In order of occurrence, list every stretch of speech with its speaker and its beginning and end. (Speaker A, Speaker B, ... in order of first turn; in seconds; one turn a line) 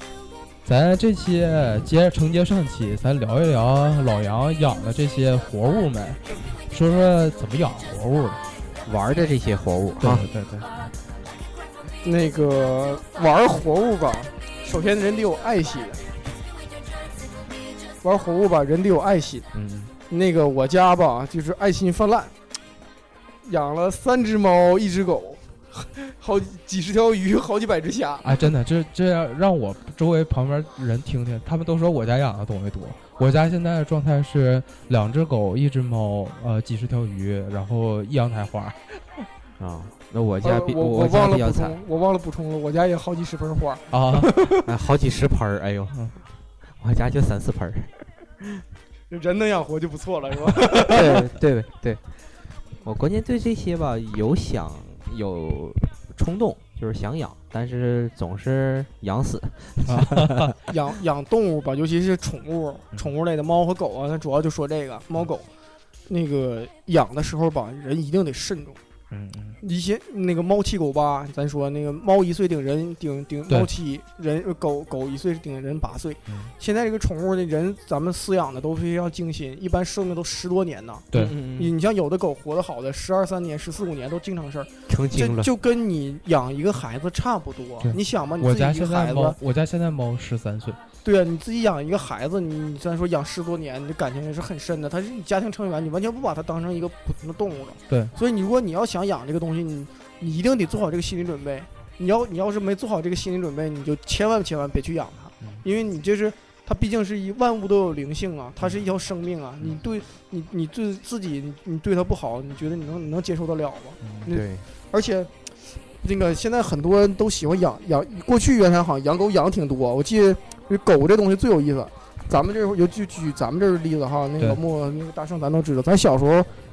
Speaker A: 0.6-8.4
Speaker B: 8.8-10.3
Speaker A: 10.0-10.7
Speaker C: 12.0-16.0
Speaker C: 18.0-19.5
Speaker A: 19.5-19.9
Speaker C: 20.1-22.3
Speaker C: 23.4-28.4
Speaker A: 28.2-39.2
Speaker B: 39.6-41.8
Speaker C: 40.4-44.7
Speaker A: 43.9-44.4
Speaker B: 44.6-46.0
Speaker B: 46.8-48.6
Speaker C: 49.1-51.3
Speaker B: 50.8-52.0
Speaker B: 52.8-60.5
Speaker A: 59.9-60.5
Speaker C: 60.7-65.5
Speaker C: 66.1-68.8
Speaker A: 69.1-69.6
Speaker C: 69.6-89.4
Speaker B: 81.1-81.7
Speaker B: 84.9-85.5
Speaker A: 87.8-90.8
Speaker C: 91.0-126.5
Speaker A: 97.9-98.1
Speaker A: 114.0-114.3
Speaker B: 114.2-114.6